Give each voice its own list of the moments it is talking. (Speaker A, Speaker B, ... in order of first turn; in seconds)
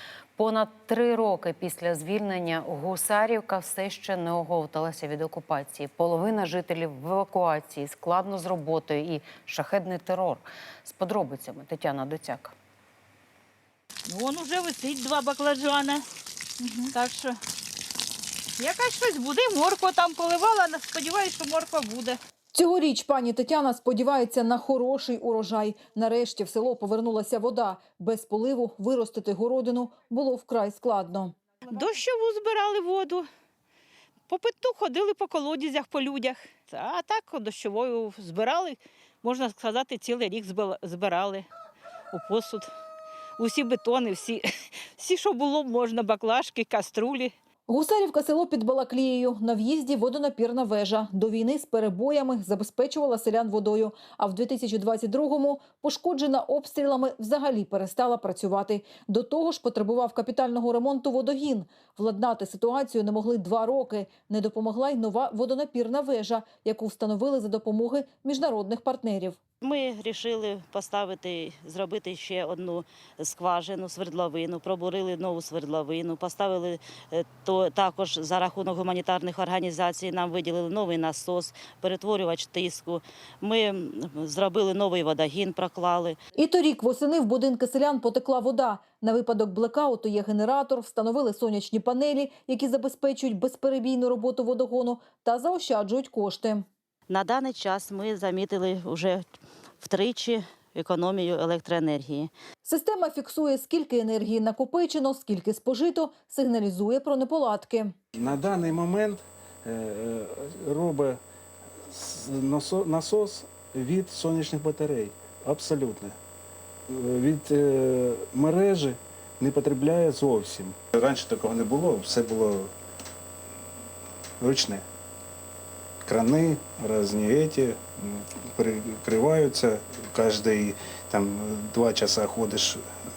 Speaker A: 0.4-12.5
Speaker B: 14.1-16.1, 16.6-17.4, 18.6-22.2, 31.7-33.3, 34.3-41.5, 42.1-42.7, 43.4-47.3
Speaker C: 22.5-31.4, 47.7-69.4, 86.4-96.7, 102.6-107.9
Speaker D: 69.6-86.2, 97.1-99.2, 99.8-102.3
Speaker E: 108.2-111.2, 111.9-116.2, 116.9-122.7, 124.4-124.8, 126.0-132.8